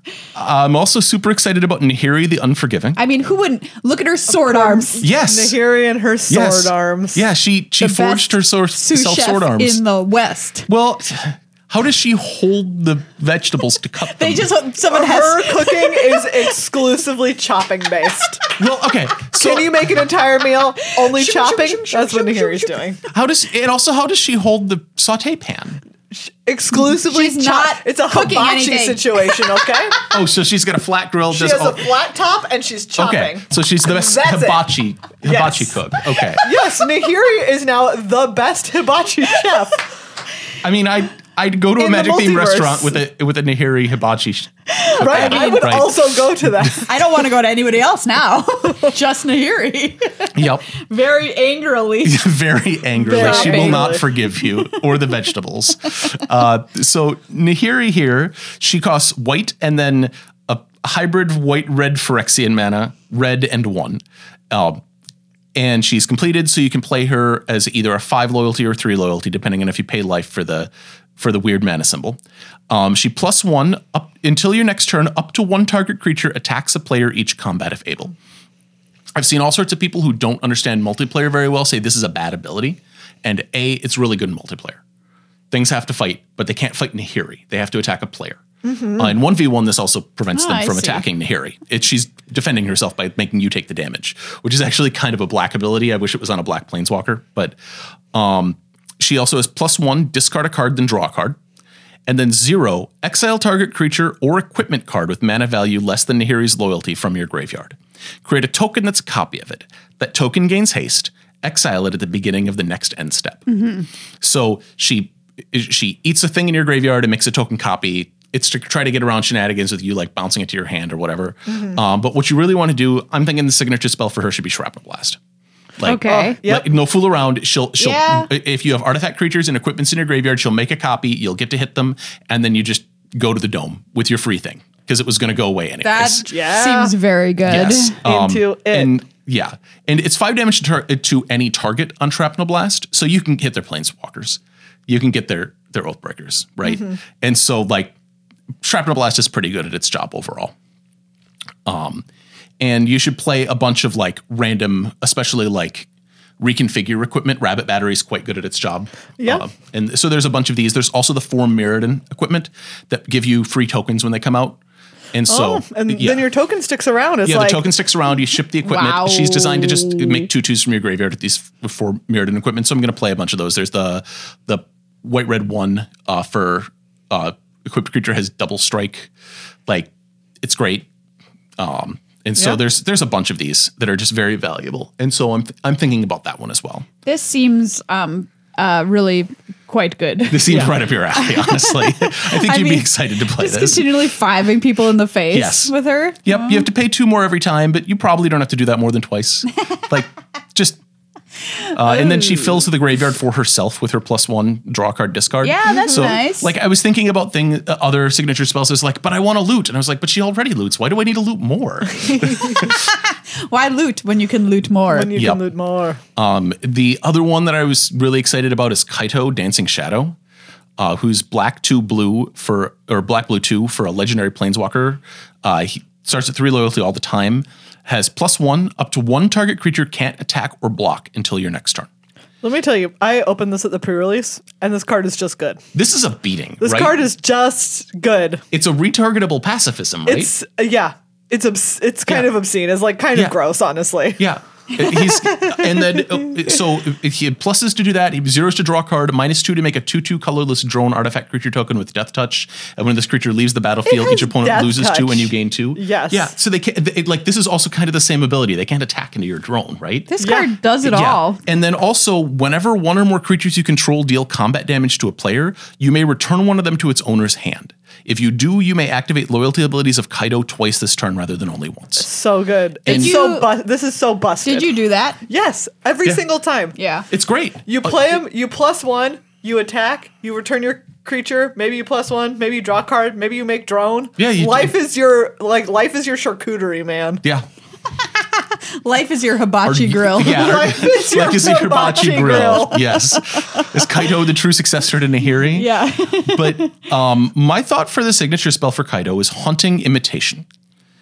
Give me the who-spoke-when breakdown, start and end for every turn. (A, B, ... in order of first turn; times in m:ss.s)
0:00.3-0:03.0 A
0:03.0-0:05.1 B
0:04.3-0:07.3 C
0:05.0-0:05.6 A
0:06.3-0:09.8 A
0:07.8-0:10.7 B
0:10.7-0:14.5 A
0:14.0-0:16.2 B
0:14.9-0:18.4 C
0:18.6-0:19.8 A
0:19.3-0:23.0 C
0:20.8-0:22.8 B
0:23.1-0:25.8 A
0:26.1-0:30.0 C
0:26.7-0:29.4 B
0:30.1-0:31.9 A
0:31.3-0:34.7 C
0:33.0-0:36.5 A
0:35.2-0:35.8 C
0:36.4-0:39.9 C
0:40.6-0:46.7 A
0:41.8-0:43.0 C
0:44.7-0:45.8 B
0:45.0-0:46.9 C
0:46.7-0:52.2 B
0:50.4-0:50.7 A
0:52.0-1:04.8 A
0:53.0-0:54.0 C
0:53.1-0:54.8 B
1:05.6-1:12.2 A
1:12.7-1:18.1 A
1:19.1-1:24.8 A
1:25.5-1:28.4 A
1:28.6-1:29.2 C
1:28.9-1:37.6 A
1:30.3-1:31.1 B
1:38.1-1:41.4 A
1:42.1-1:53.7 A
1:53.6-1:53.8 B
1:54.2-2:05.2 A
2:05.8-2:16.3 A
2:05.8-2:06.4 B
2:06.0-2:06.7 C
2:07.8-2:08.3 B
2:15.8-2:18.0 B
2:16.3-2:17.0 C
2:17.4-2:27.9 A
2:18.0-2:18.9 C
2:28.6-2:30.5 A
2:31.7-2:32.1 A
2:32.6-2:35.9 A
2:36.4-2:44.6 A
2:39.2-2:39.4 C
2:45.1-2:46.2 A
2:45.3-2:47.7 C
2:47.2-2:59.1 A
2:48.6-2:50.3 B
3:00.4-3:00.9 A
3:01.6-3:06.9 A
3:07.0-3:16.7 B
3:10.3-3:13.9 A
3:10.5-3:10.7 C
3:15.3-3:20.8 A
3:21.7-3:32.8 A
3:25.4-3:26.5 B
3:25.7-3:26.2 C
3:32.6-3:35.1 B
3:34.9-3:36.0 C
3:35.1-3:35.4 A
3:36.2-3:40.2 A
3:40.8-3:51.9 A
3:52.4-3:55.6 C
3:55.7-3:57.0 A
3:56.6-3:58.4 C
3:58.5-4:00.3 A
4:00.1-4:04.2 C
4:04.2-4:20.1 A
4:04.7-4:06.2 C
4:13.9-4:16.3 C
4:20.1-4:21.4 B
4:20.2-4:20.5 C
4:20.8-4:32.1 A
4:32.0-4:34.7 C
4:32.9-4:33.3 A
4:32.9-4:33.5 B
4:34.4-4:35.2 B
4:35.3-4:36.7 C
4:36.8-4:37.1 B
4:37.1-4:38.0 A
4:37.7-4:47.2 C
4:44.2-4:44.7 A
4:48.1-4:50.5 B
4:49.6-5:00.4 A
4:50.2-4:53.0 C
4:52.7-4:53.7 B
4:55.5-4:56.8 B